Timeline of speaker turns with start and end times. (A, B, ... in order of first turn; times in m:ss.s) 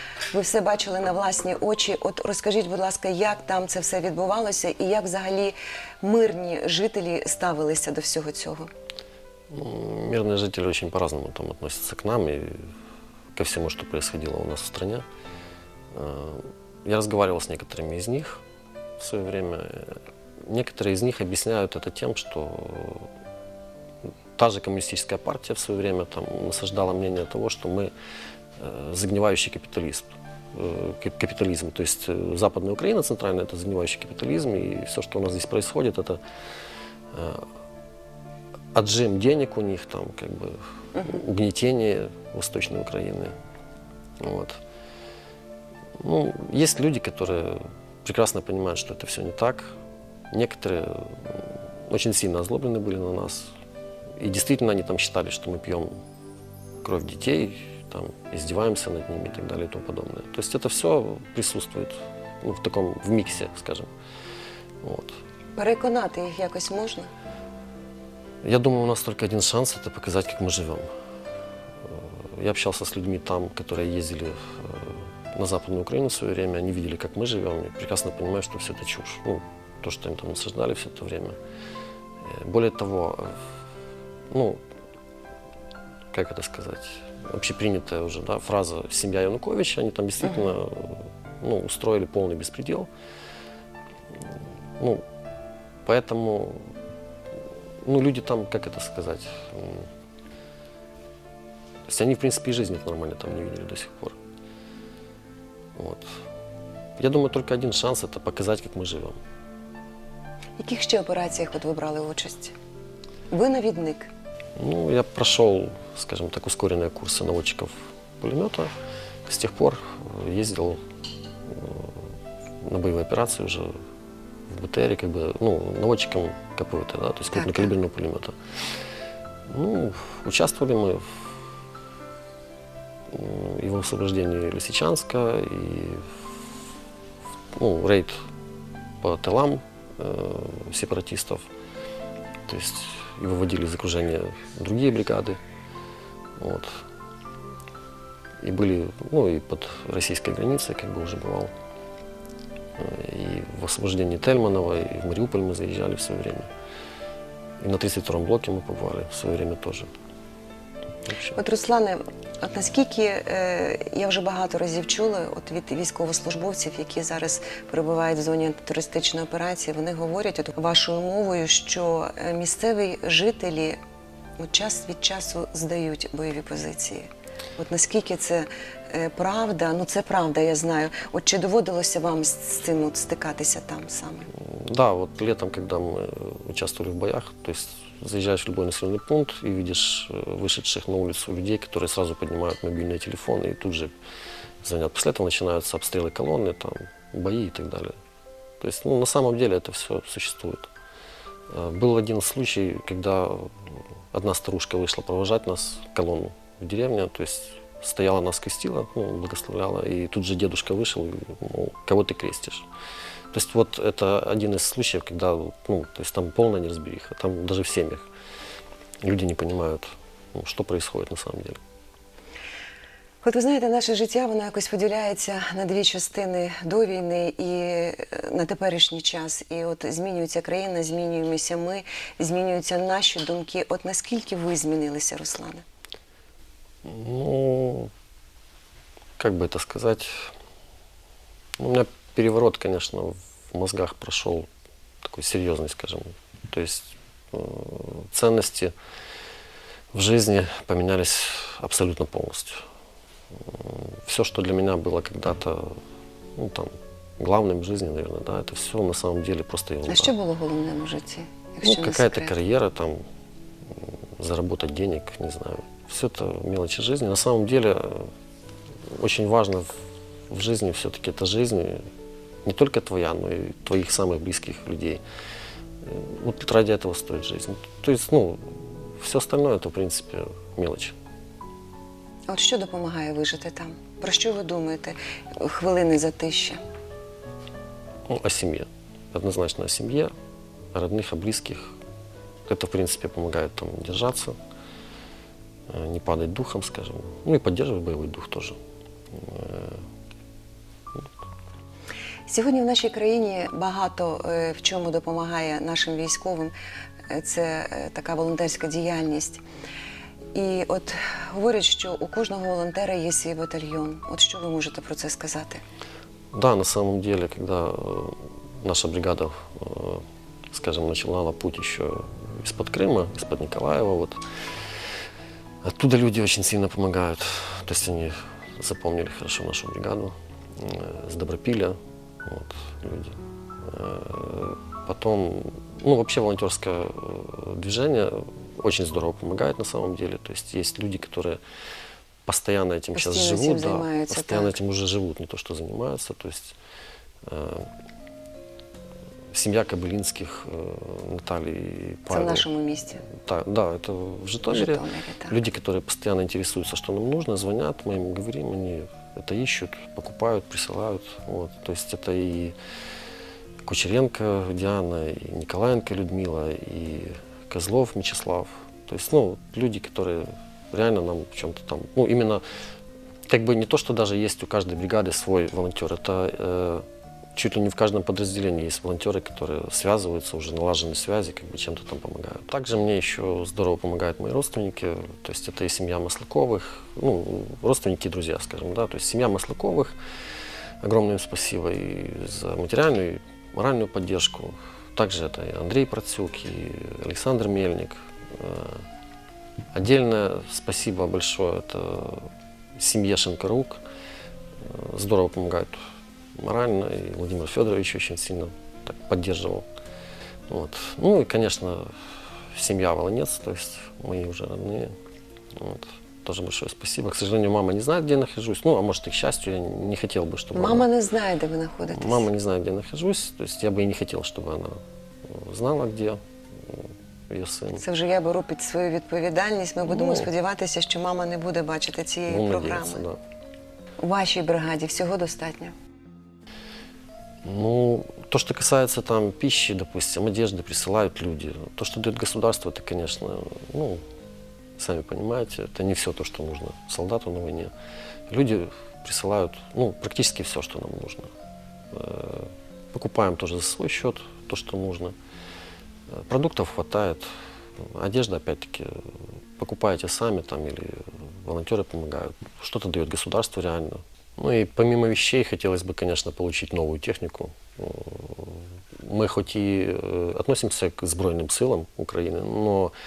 0:00.3-0:08.7 A
0:09.5-0:12.7 B
0:13.4-0:15.0 B
0:15.9-0:18.4 B
0:19.0-0:23.1 B
0:24.4-0:27.9 B
0:28.6-0:36.2 B
0:37.1-0:37.5 B
0:38.7-0:43.3 B
0:44.2-0:44.6 B
0:46.0-0:49.8 B
0:50.3-0:53.5 B
0:54.2-0:55.9 B
0:56.8-1:03.9 B
1:04.8-1:05.2 B
1:05.6-1:07.1 A
1:08.4-1:10.9 B
1:11.9-1:21.4 B
1:22.2-1:23.4 B
1:24.3-1:24.6 B
1:26.1-1:32.9 B
1:35.9-1:36.7 B
1:37.8-1:39.9 B
1:41.9-1:44.2 B
1:45.8-1:46.2 B
1:47.0-1:49.2 B
1:50.6-1:52.5 A
1:53.3-1:54.1 A
1:54.6-1:58.7 B
1:59.3-2:00.8 B
2:01.5-2:02.0 B
2:02.6-2:03.8 B
2:04.5-2:08.4 B
2:07.4-2:07.7 A
2:09.5-2:11.2 B
2:13.1-2:16.2 B
2:17.6-2:18.2 B
2:19.0-2:21.5 B
2:22.5-2:25.4 B
2:26.4-2:26.8 B
2:28.4-2:31.5 B
2:32.8-2:36.5 B
2:37.6-2:39.9 B
2:41.1-2:41.4 B
2:41.4-2:53.8 A
2:54.4-3:04.3 A
3:04.4-3:13.9 B
3:14.6-3:18.0 B
3:18.6-3:20.7 B
3:21.5-3:32.7 B
3:33.3-3:38.1 B
3:39.0-3:41.6 B
3:43.2-3:55.6 A
3:56.8-3:57.9 B
3:59.2-4:00.3 B
4:01.6-4:04.5 B
4:05.0-4:08.7 B
4:09.9-4:12.6 B
4:13.4-4:15.8 B
4:16.4-4:20.1 B
4:19.9-4:22.4 A
4:21.6-4:23.0 B
4:23.7-4:28.1 B
4:28.9-4:29.8 B
4:30.3-4:31.9 B
4:32.4-4:35.0 B
4:35.8-4:41.0 B
4:42.3-4:46.6 A
4:48.1-4:50.1 B
4:50.7-4:51.8 B
4:52.5-4:54.4 B
4:55.7-4:58.6 B
4:59.1-4:59.8 B
5:02.3-5:06.5 A
5:07.1-5:09.4 A
5:10.3-5:15.6 A
5:16.3-5:24.2 B
5:25.6-5:41.4 B
5:42.3-5:46.6 B
5:42.9-5:44.6 A
5:47.3-5:47.7 B
5:49.3-5:52.5 B
5:52.1-5:53.0 A
5:53.1-6:02.6 B
5:54.5-5:55.4 A
6:03.6-6:12.4 B
6:13.3-6:30.0 B
6:30.8-6:38.9 B
6:39.7-6:43.8 B
6:44.6-6:49.7 B
6:50.5-6:51.9 B
6:52.5-6:54.9 B
6:55.6-7:00.9 B
7:00.5-7:02.3 A
7:01.9-7:07.8 B
7:07.8-7:13.0 A
7:09.9-7:10.3 B
7:12.3-7:13.2 B
7:14.0-7:15.7 A
7:17.4-7:24.0 B
7:24.8-7:27.7 B
7:28.3-7:31.3 B
7:31.9-7:35.2 B
7:36.1-7:52.9 B